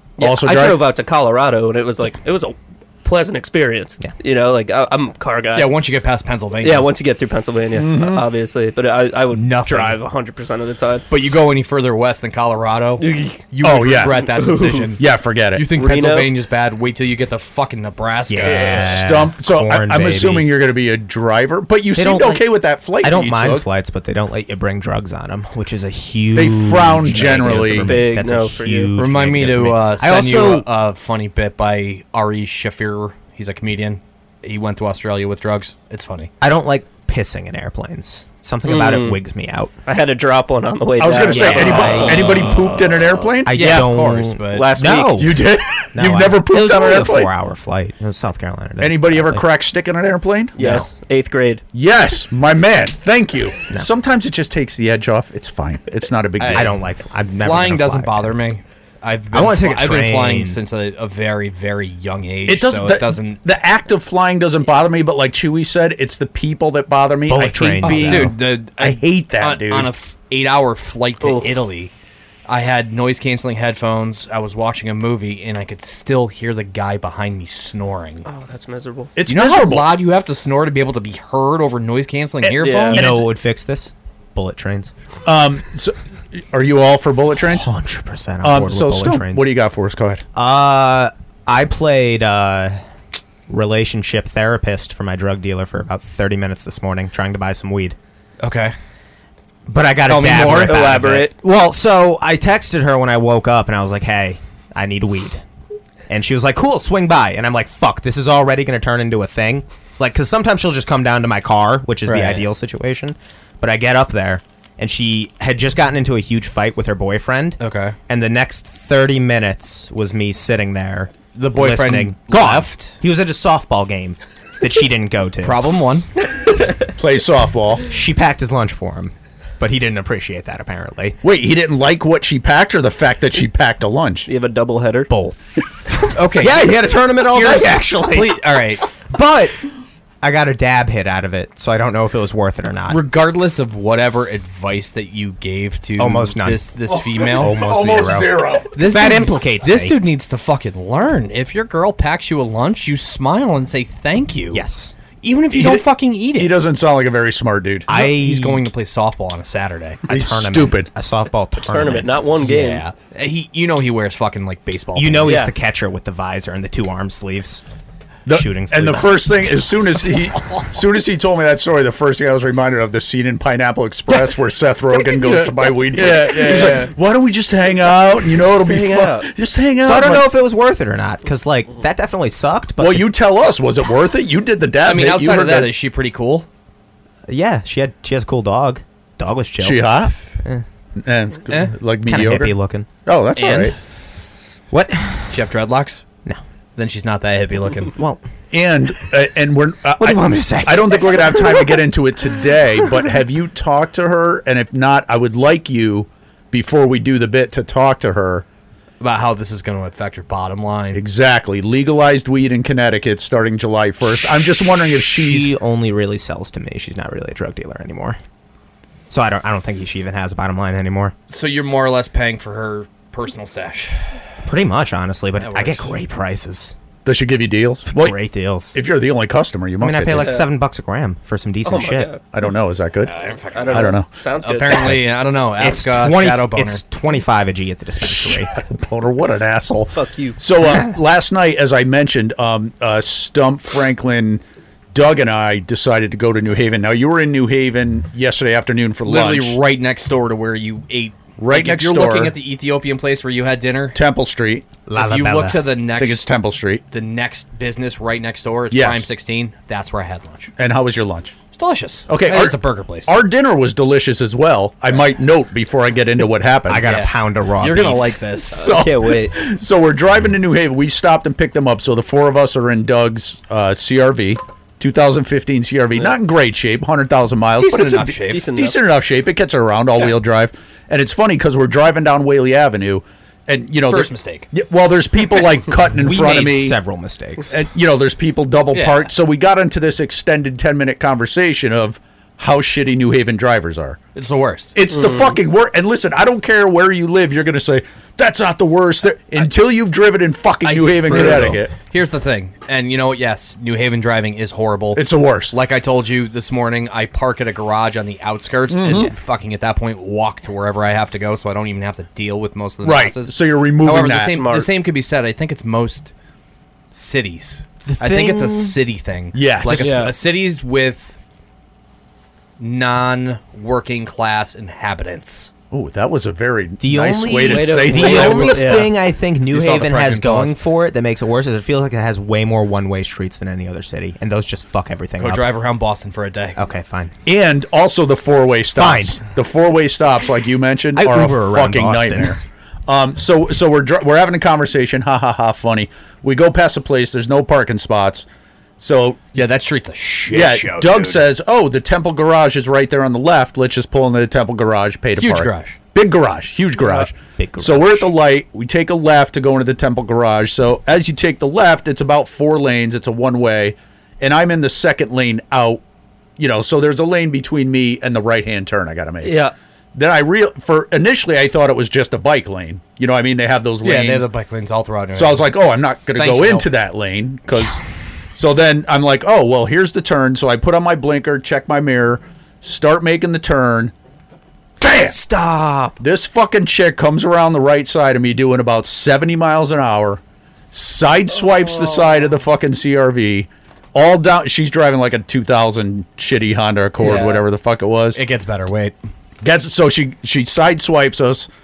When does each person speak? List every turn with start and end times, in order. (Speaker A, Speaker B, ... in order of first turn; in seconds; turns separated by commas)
Speaker A: 0.2-5.7, Speaker B: 0.2-0.8, Speaker C: 5.5-6.9, Speaker A: 6.6-11.0, Speaker B: 7.7-8.2, Speaker C: 9.3-10.0, Speaker C: 11.1-15.0, Speaker A: 13.0-13.4, Speaker B: 13.6-14.2, Speaker A: 14.4-14.8, Speaker B: 15.0-15.6, Speaker C: 15.5-19.0, Speaker A: 15.7-16.3, Speaker D: 18.3-20.5, Speaker B: 18.4-23.7, Speaker D: 21.9-22.4, Speaker D: 23.0-30.6, Speaker B: 26.3-27.9, Speaker A: 27.6-28.9, Speaker C: 29.0-36.3, Speaker D: 36.4-39.7, Speaker A: 38.6-39.2, Speaker A: 39.9-42.8, Speaker B: 41.0-44.1, Speaker D: 41.3-42.7, Speaker D: 43.5-49.4, Speaker C: 43.5-44.7, Speaker A: 44.5-45.4, Speaker B: 45.1-47.3, Speaker B: 48.8-50.6, Speaker A: 50.6-51.6, Speaker C: 50.6-50.9, Speaker B: 51.7-56.7, Speaker C: 56.4-56.8, Speaker D: 56.5-58.4, Speaker C: 57.4-63.4, Speaker D: 59.3-60.6, Speaker B: 62.5-69.9, Speaker D: 67.3-68.3, Speaker C: 67.8-71.9, Speaker A: 71.2-71.5, Speaker C: 72.5-78.2, Speaker A: 78.2-79.1, Speaker B: 79.2-80.0, Speaker C: 79.3-83.1, Speaker B: 82.4-83.2, Speaker A: 82.6-83.0, Speaker D: 82.9-84.9, Speaker B: 85.2-87.7, Speaker D: 87.5-89.5, Speaker B: 88.4-90.2, Speaker D: 90.3-92.8, Speaker D: 93.5-98.0, Speaker C: 98.4-98.7, Speaker D: 99.7-105.4, Speaker C: 100.1-101.0, Speaker A: 100.2-101.3, Speaker D: 106.1-125.6, Speaker C: 112.0-112.5, Speaker C: 117.6-118.0, Speaker C: 121.3-122.9, Speaker C: 125.4-126.0, Speaker B: 127.0-127.8, Speaker D: 127.9-131.2, Speaker B: 131.2-134.3, Speaker A: 134.3-135.1, Speaker D: 135.1-139.6, Speaker C: 136.1-136.7, Speaker C: 137.3-138.8, Speaker D: 140.2-143.0, Speaker C: 142.9-148.2, Speaker D: 146.0-149.9, Speaker B: 146.9-148.7, Speaker C: 148.7-154.6, Speaker D: 154.5-154.9, Speaker C: 155.2-156.6, Speaker B: 155.5-155.8, Speaker B: 156.3-157.9, Speaker D: 157.9-158.6, Speaker C: 157.9-160.0, Speaker D: 160.1-162.1, Speaker B: 160.1-160.9, Speaker A: 161.7-162.8, Speaker C: 162.4-165.4, Speaker D: 164.9-167.6, Speaker A: 165.2-165.5, Speaker B: 168.2-180.3, Speaker D: 168.3-169.4, Speaker C: 175.2-176.9, Speaker A: 176.0-176.8, Speaker A: 178.5-179.3, Speaker D: 179.8-183.1, Speaker B: 182.8-185.7, Speaker C: 184.8-186.4, Speaker D: 187.3-190.6, Speaker B: 189.6-190.1, Speaker B: 191.0-192.5, Speaker D: 192.1-192.9, Speaker B: 193.1-193.7, Speaker C: 193.3-193.8, Speaker D: 194.7-195.4, Speaker C: 195.3-196.0, Speaker C: 196.8-197.9, Speaker D: 197.9-198.2, Speaker B: 198.5-208.4, Speaker D: 200.0-201.8, Speaker C: 209.0-211.0, Speaker B: 210.9-215.5, Speaker D: 215.2-218.2, Speaker D: 219.1-221.1, Speaker C: 221.3-224.1, Speaker D: 224.4-226.7, Speaker C: 225.4-225.9, Speaker B: 227.0-228.2, Speaker D: 227.9-228.8, Speaker B: 228.7-230.4, Speaker D: 229.8-232.1, Speaker A: 231.6-232.2, Speaker B: 232.3-233.1, Speaker C: 233.0-236.8, Speaker A: 233.5-234.9, Speaker B: 233.7-234.1, Speaker D: 235.6-238.5, Speaker B: 238.0-249.6, Speaker A: 239.9-240.4, Speaker C: 249.0-254.0, Speaker B: 251.4-252.3, Speaker B: 253.9-254.7, Speaker D: 254.9-255.6, Speaker C: 254.9-256.3, Speaker B: 256.0-256.8, Speaker C: 256.9-260.5, Speaker B: 258.7-259.1, Speaker B: 260.6-261.3, Speaker C: 261.5-263.1, Speaker B: 262.1-266.9, Speaker D: 266.7-268.2, Speaker C: 266.8-268.8, Speaker B: 268.5-286.8, Speaker A: 268.6-269.3, Speaker C: 277.6-278.4, Speaker A: 278.3-278.8, Speaker C: 283.9-284.5, Speaker D: 285.9-287.6, Speaker B: 287.5-294.0, Speaker C: 288.7-289.1, Speaker C: 294.1-294.7, Speaker B: 294.7-301.7, Speaker A: 294.9-295.3, Speaker C: 300.6-316.1, Speaker B: 304.9-305.6, Speaker B: 308.7-309.1, Speaker B: 312.8-314.4, Speaker A: 314.2-314.7, Speaker C: 316.9-321.2, Speaker D: 317.9-318.8, Speaker B: 319.3-319.9, Speaker D: 319.7-320.0, Speaker A: 319.8-320.1, Speaker C: 322.6-325.5, Speaker B: 325.7-328.9, Speaker D: 326.8-335.5, Speaker A: 327.4-328.9, Speaker C: 329.5-330.5, Speaker C: 335.2-336.6, Speaker D: 336.6-337.1, Speaker B: 337.2-348.2, Speaker D: 338.7-339.2, Speaker D: 340.9-342.4, Speaker B: 348.8-349.2, Speaker C: 349.3-351.3, Speaker B: 350.3-365.8, Speaker C: 355.2-355.8, Speaker D: 357.1-358.1, Speaker B: 366.4-374.3, Speaker A: 369.2-369.5, Speaker C: 373.8-375.5, Speaker B: 375.1-377.8, Speaker C: 376.1-376.7, Speaker B: 378.4-383.9, Speaker B: 384.8-385.2, Speaker A: 384.8-386.0, Speaker B: 386.0-390.2, Speaker B: 390.7-398.2, Speaker A: 391.6-392.0, Speaker A: 397.0-397.4, Speaker C: 398.1-398.9, Speaker B: 399.4-401.5